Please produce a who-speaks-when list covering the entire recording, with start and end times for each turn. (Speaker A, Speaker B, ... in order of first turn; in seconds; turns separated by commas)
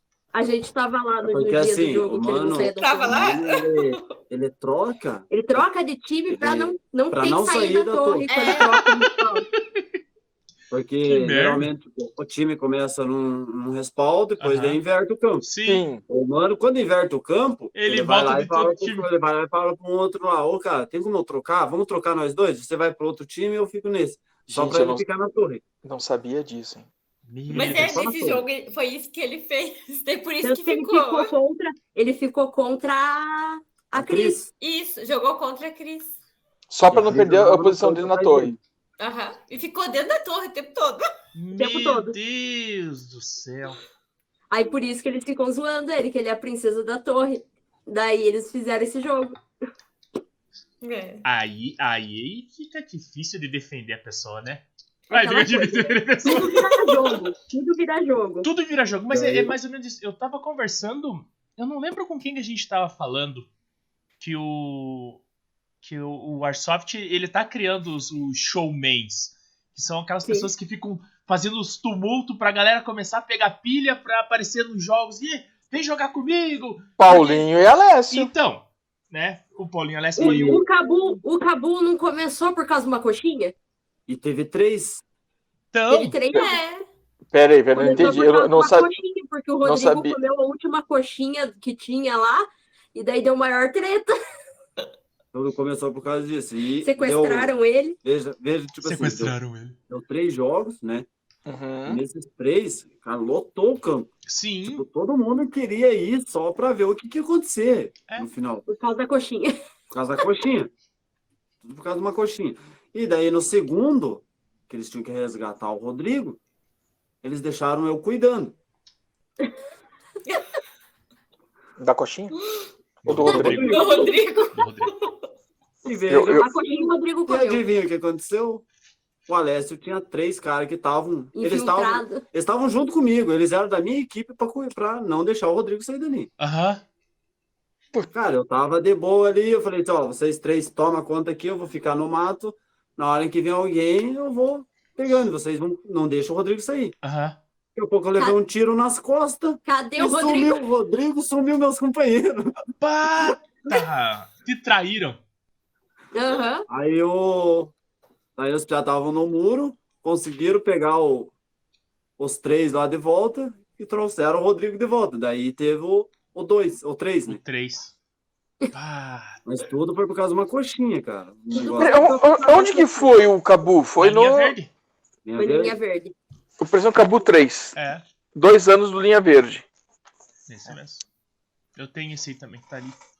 Speaker A: 0.3-3.2, Speaker B: 1.2-5.6, Speaker C: 2.7-4.2, Speaker A: 5.3-9.4, Speaker B: 6.3-8.3, Speaker C: 8.3-8.8, Speaker D: 8.6-9.0, Speaker B: 10.7-15.5, Speaker D: 11.0-11.7, Speaker D: 14.4-14.8, Speaker D: 15.4-15.8, Speaker E: 15.6-16.0, Speaker B: 16.1-25.6, Speaker D: 17.7-19.1, Speaker E: 24.5-25.0, Speaker E: 25.8-26.9, Speaker D: 27.3-28.0, Speaker B: 27.5-28.4, Speaker C: 27.5-31.3, Speaker A: 30.4-34.4, Speaker B: 33.9-34.5, Speaker C: 34.6-36.1, Speaker E: 36.7-38.5, Speaker B: 36.9-38.6, Speaker C: 39.0-41.0, Speaker D: 41.3-43.8, Speaker A: 41.5-42.1, Speaker A: 44.5-49.4, Speaker C: 50.8-51.2, Speaker D: 51.2-56.6, Speaker A: 55.1-58.5, Speaker D: 58.4-63.5, Speaker B: 59.1-59.5, Speaker D: 64.2-65.2, Speaker D: 65.8-76.9, Speaker A: 70.2-70.5, Speaker E: 77.0-78.3, Speaker D: 78.1-80.6, Speaker B: 80.2-80.6, Speaker A: 80.2-83.5, Speaker B: 84.1-85.0, Speaker D: 85.7-86.2, Speaker A: 85.9-86.6, Speaker C: 86.3-86.8, Speaker E: 87.3-88.9, Speaker A: 87.7-94.1, Speaker E: 89.6-90.2, Speaker B: 95.3-97.5, Speaker A: 96.8-98.0, Speaker B: 98.0-99.3, Speaker D: 98.8-99.8, Speaker B: 99.9-101.0, Speaker E: 101.5-102.0, Speaker B: 101.8-104.1, Speaker D: 104.2-104.8, Speaker B: 104.6-108.6, Speaker A: 108.7-109.5, Speaker B: 109.9-110.7, Speaker B: 111.6-116.4, Speaker B: 117.2-118.5, Speaker E: 121.8-122.3, Speaker D: 123.0-123.6, Speaker E: 123.0-123.8, Speaker B: 123.2-124.2, Speaker C: 123.2-125.2, Speaker D: 124.5-124.9, Speaker B: 125.8-126.5, Speaker E: 126.1-126.5, Speaker A: 126.3-127.6, Speaker B: 127.3-128.6, Speaker B: 129.3-136.3, Speaker A: 131.3-132.2, Speaker D: 136.4-136.8, Speaker B: 138.1-146.9, Speaker D: 147.0-147.4, Speaker B: 147.7-152.5, Speaker A: 149.6-150.6, Speaker D: 152.8-155.2, Speaker A: 156.1-156.7, Speaker B: 156.7-157.7, Speaker B: 158.3-161.3, Speaker B: 162.2-167.4, Speaker D: 167.3-167.9, Speaker D: 168.7-169.4, Speaker B: 169.4-172.2, Speaker A: 171.5-173.1, Speaker E: 171.8-174.5, Speaker D: 174.0-174.7, Speaker B: 175.2-175.8, Speaker A: 175.3-176.1, Speaker E: 176.6-177.7, Speaker D: 177.7-178.0, Speaker E: 178.3-179.6, Speaker D: 180.5-181.0, Speaker D: 181.8-183.0